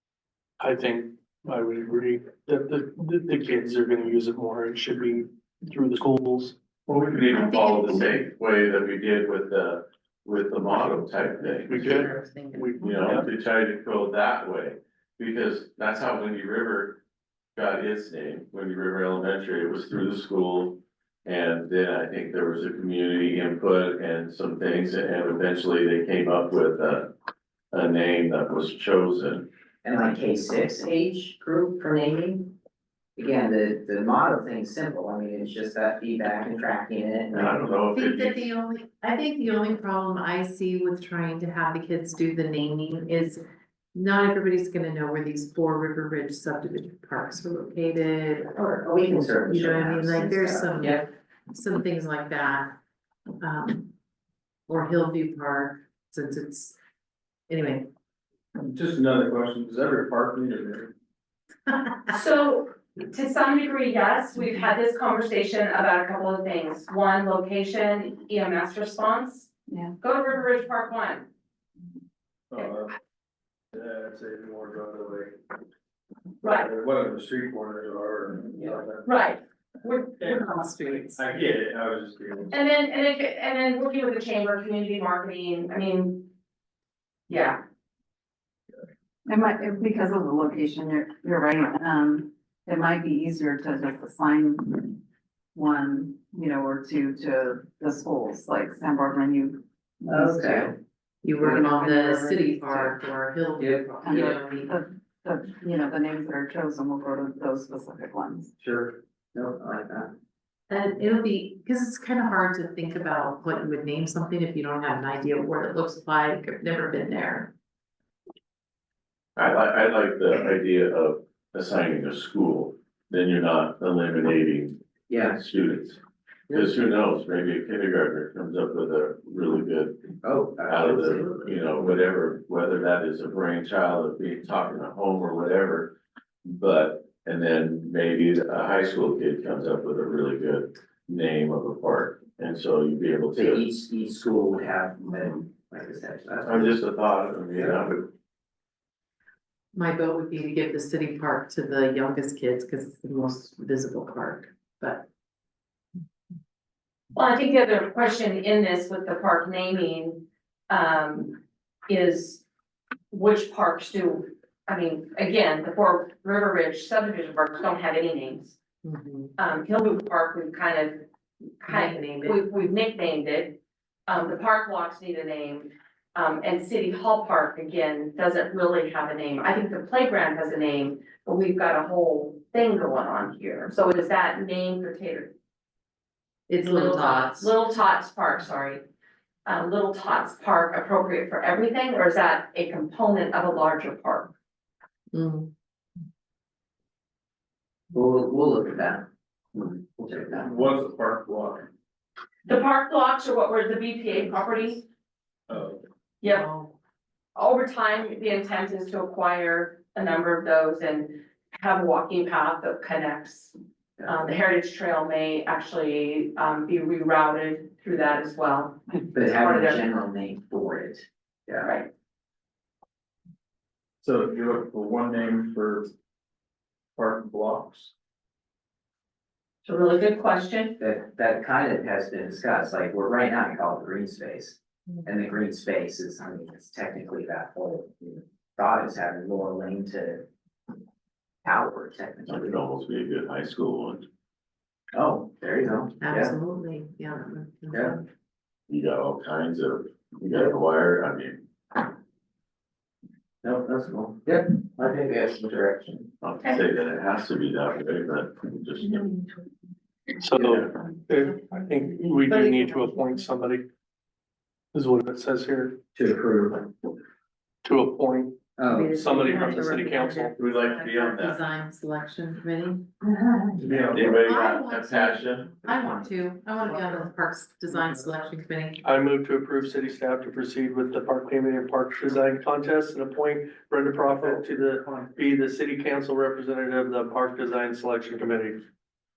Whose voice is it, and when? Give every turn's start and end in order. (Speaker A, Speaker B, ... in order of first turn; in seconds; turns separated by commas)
Speaker A: 0.6-6.6, Speaker B: 6.9-11.9, Speaker C: 7.3-8.2, Speaker C: 11.5-13.2, Speaker A: 11.7-13.3, Speaker B: 12.8-17.0, Speaker B: 17.6-27.1, Speaker B: 27.7-29.5, Speaker D: 29.8-32.5, Speaker D: 33.2-37.6, Speaker B: 37.3-38.5, Speaker C: 37.9-43.4, Speaker C: 43.9-48.5, Speaker D: 48.5-51.0, Speaker C: 49.5-52.8, Speaker C: 53.4-53.9, Speaker C: 54.7-56.8, Speaker C: 57.5-57.9, Speaker E: 58.6-60.9, Speaker F: 62.1-71.2, Speaker E: 72.5-72.9, Speaker E: 73.7-75.3, Speaker F: 76.4-76.7, Speaker E: 76.5-79.3, Speaker F: 79.0-80.3, Speaker E: 80.2-80.5, Speaker C: 80.2-81.3, Speaker E: 81.1-82.6, Speaker F: 82.5-86.3, Speaker F: 87.3-87.6, Speaker G: 89.3-95.0, Speaker G: 95.5-100.4, Speaker D: 100.1-100.7, Speaker C: 100.2-100.6, Speaker C: 101.2-104.8, Speaker G: 101.4-102.9, Speaker D: 103.6-103.8, Speaker G: 104.0-108.5, Speaker D: 108.6-110.1, Speaker C: 110.7-117.5, Speaker B: 119.4-124.8, Speaker D: 125.1-125.4, Speaker B: 125.3-126.0, Speaker D: 126.5-126.8, Speaker B: 126.5-130.1, Speaker D: 130.2-131.9, Speaker B: 130.7-135.9, Speaker B: 136.5-143.6, Speaker D: 143.3-146.8, Speaker B: 146.4-148.1, Speaker C: 149.7-155.1, Speaker F: 157.2-162.4, Speaker F: 163.1-168.6, Speaker C: 168.8-169.3, Speaker F: 169.4-171.1, Speaker F: 171.6-185.3, Speaker C: 171.7-172.4, Speaker C: 186.5-187.5, Speaker F: 186.6-188.8, Speaker F: 189.5-194.3, Speaker C: 195.1-195.5, Speaker D: 197.9-199.1, Speaker E: 200.0-201.7, Speaker D: 200.0-200.5, Speaker F: 202.5-204.8, Speaker E: 205.5-205.8, Speaker F: 206.2-206.5, Speaker C: 206.2-206.7, Speaker F: 207.4-219.8, Speaker D: 219.1-221.7, Speaker F: 221.6-221.9, Speaker E: 224.0-225.9, Speaker E: 227.0-227.9, Speaker F: 229.6-230.8, Speaker D: 230.8-240.3, Speaker D: 241.4-242.6, Speaker B: 242.3-244.1, Speaker D: 244.9-246.3, Speaker C: 246.0-248.0, Speaker B: 248.7-251.4, Speaker D: 253.4-256.1, Speaker B: 256.2-259.1, Speaker A: 260.2-263.6, Speaker C: 262.3-262.6, Speaker A: 264.7-265.8, Speaker D: 265.9-266.6, Speaker A: 267.6-270.4, Speaker D: 268.6-269.1, Speaker C: 269.0-272.9, Speaker B: 270.4-271.4, Speaker D: 273.6-273.9, Speaker E: 273.6-274.1, Speaker C: 273.7-278.8, Speaker B: 273.9-275.6, Speaker A: 278.8-288.6, Speaker E: 284.1-285.0